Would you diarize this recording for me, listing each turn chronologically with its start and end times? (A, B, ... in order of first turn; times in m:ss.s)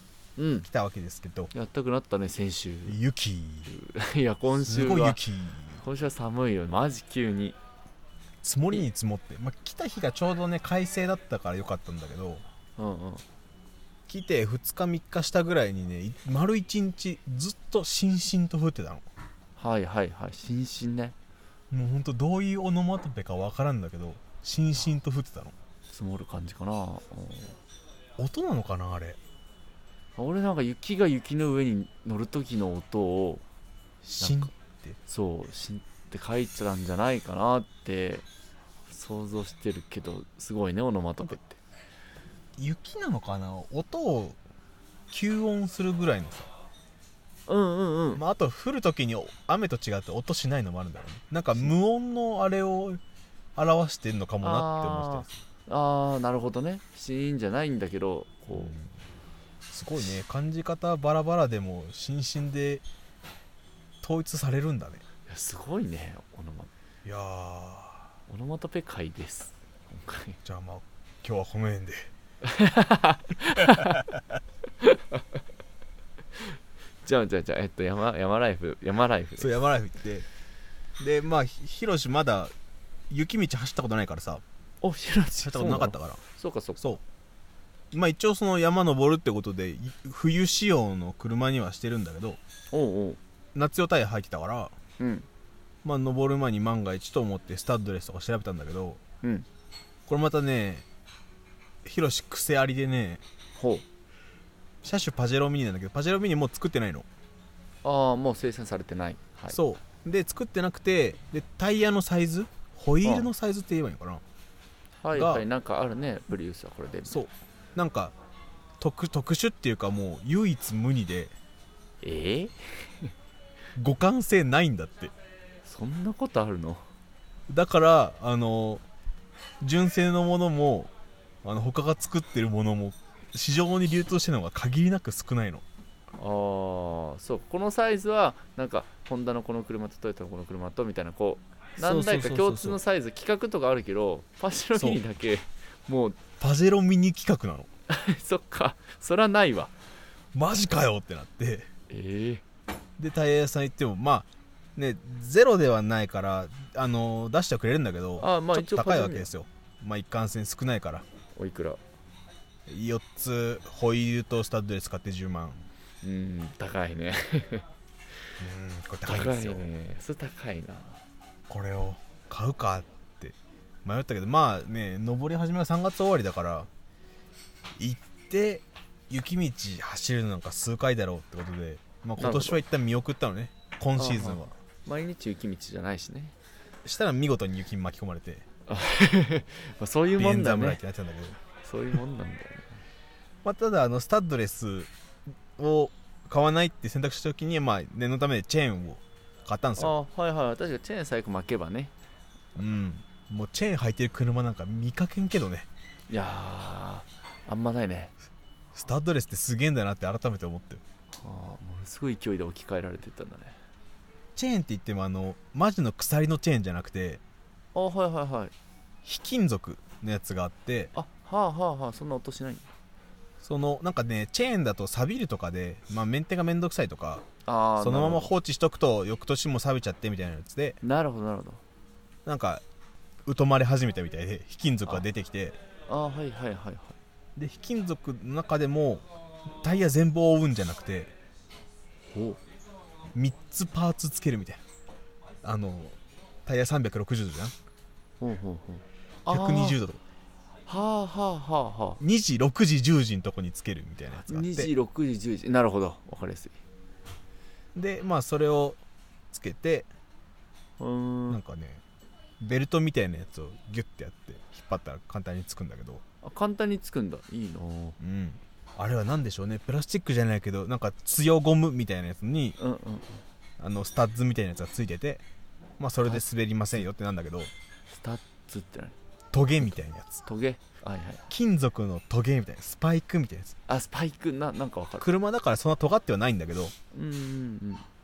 0:00.4-0:00.7 A
0:00.6-0:01.5 B
0:01.5-0:03.0 A
0:02.9-0:03.7 B
0:03.7-0:05.2 A
0:04.5-0:05.8 B
0:05.7-0:07.6 A
0:08.4-0:12.4 B
0:12.8-0:13.2 A
0:14.1-0:19.0 B
0:19.6-0:21.2 A
0:21.7-0:25.5 B
0:25.9-0:27.6 A
0:28.2-0:29.2 B
0:30.2-0:33.4 A
0:34.0-0:35.0 B
0:34.2-0:34.5 A
0:35.0-0:38.2 A
0:38.9-0:41.6 A
0:42.6-0:44.4 B
0:45.1-0:46.5 B
0:47.5-0:48.2 A
0:48.1-0:53.0 B
0:53.6-0:55.3 B
0:54.4-0:58.7 A
0:58.5-0:58.9 B
0:59.7-1:02.8 B
1:04.0-1:05.0 B
1:05.3-1:06.7 A
1:07.0-1:08.0 B
1:08.3-1:10.4 A
1:10.4-1:12.1 B
1:12.4-1:14.0 A
1:13.6-1:14.0 B
1:14.8-1:15.4 A
1:16.3-1:19.5 A
1:19.4-1:20.2 B
1:21.0-1:22.5 B
1:23.1-1:24.4 B
1:24.8-1:26.8 A
1:25.4-1:26.2 B
1:27.9-1:32.4 B
1:32.7-1:33.2 A
1:33.5-1:34.7 B
1:35.0-1:35.2 A
1:35.8-1:39.0 B
1:40.1-1:40.8 B
1:41.8-1:43.2 B
1:43.6-1:43.8 A
1:44.8-1:47.0 B
1:47.8-1:49.6 A
1:49.5-1:54.2 B
1:53.0-1:53.3 A
1:55.0-1:57.2 A
1:55.1-1:55.4 B
1:57.1-1:58.1 B
1:58.8-2:01.3 B
2:02.0-2:03.1 A
2:03.8-2:05.1 B
2:05.6-2:06.8 A
2:07.5-2:08.8 B
2:09.6-2:10.9 B
2:11.4-2:15.6 B
2:16.2-2:26.2 A
2:21.8-2:22.8 B
2:24.7-2:25.0 B
2:26.4-2:27.7 B
2:27.9-2:29.7 A
2:30.3-2:31.7 B
2:31.9-2:32.4 A
2:33.0-2:41.0 B
2:38.2-2:39.3 A
2:41.4-2:41.8 A
2:42.7-2:45.7 B
2:46.0-2:47.6 A
2:48.4-2:49.6 B
2:49.0-2:51.0 A
2:51.5-2:56.7 B
2:57.8-3:04.5 B
3:02.2-3:02.6 A
3:04.0-3:06.3 A
3:06.8-3:08.4 B
3:08.7-3:10.8 A
3:10.2-3:11.4 B
3:11.6-3:12.8 A
3:13.4-3:14.9 B
3:15.6-3:20.0 B
3:19.8-3:21.9 A
3:22.6-3:25.7 B
3:26.1-3:28.1 A
3:28.7-3:30.8 B
3:31.2-3:33.6 A
3:34.3-3:37.2 B
3:37.7-3:38.5 A
3:39.0-3:40.9 B
3:40.9-3:42.7 A
3:43.4-3:47.2 B
3:47.4-3:48.3 A
3:47.8-3:50.8 B
3:50.8-3:51.6 A
3:52.2-3:52.6 B
3:53.2-3:55.6 B
3:55.9-3:57.0 A
3:57.4-4:01.1 B
4:02.1-4:02.4 A
4:03.1-4:04.6 B
4:05.4-4:07.5 B
4:08.2-4:09.8 A
4:09.3-4:10.0 B
4:10.7-4:12.0 A
4:12.0-4:14.7 B
4:14.2-4:16.6 A
4:17.7-4:18.8 B
4:19.3-4:19.9 B
4:20.8-4:21.4 A
4:21.3-4:21.8 B
4:22.4-4:26.0 B
4:26.2-4:28.0 A
4:28.0-4:32.6 B
4:32.6-4:33.2 A
4:33.6-4:35.2 B
4:35.8-4:37.5 B
4:37.9-4:39.0 A
4:39.3-4:40.2 B
4:40.2-4:41.2 A
4:41.3-4:43.6 B
4:43.7-4:45.1 A
4:45.0-4:46.7 B
4:46.9-4:47.8 A